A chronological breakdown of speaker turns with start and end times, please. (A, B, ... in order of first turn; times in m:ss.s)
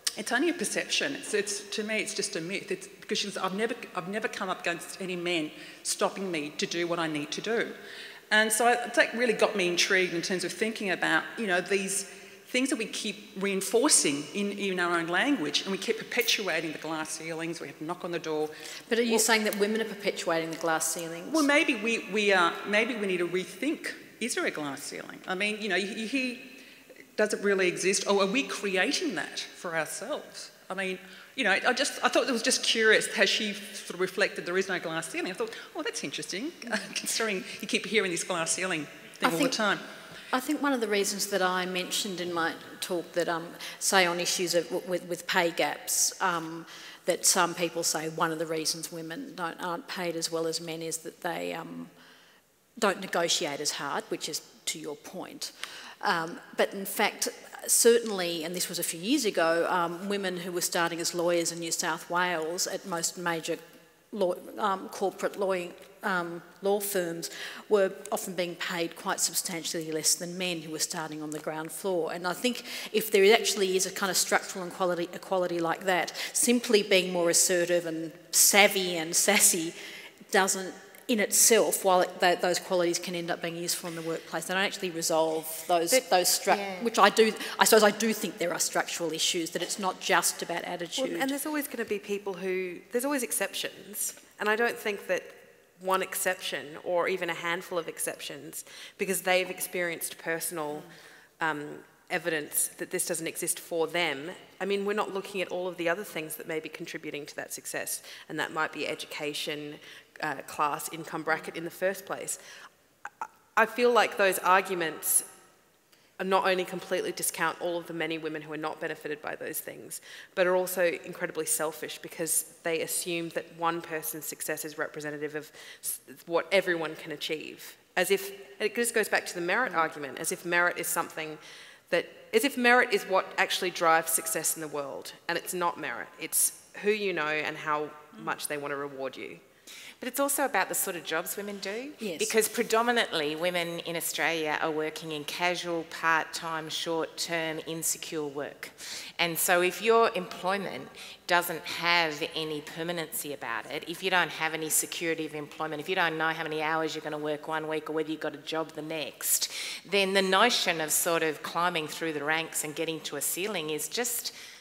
0:00.1-0:07.8 A
0:08.3-0:19.3 A
0:18.9-0:21.4 B
0:21.3-0:26.6 A
0:27.2-0:39.8 A
0:39.2-0:39.6 B
0:40.3-0:51.9 B
0:52.8-1:19.8 B
1:20.3-1:31.3 B
1:25.9-1:26.9 C
1:31.0-1:52.4 D
1:53.2-1:55.3 D
1:56.2-2:19.4 D
2:20.0-2:44.3 C
2:22.0-2:22.3 B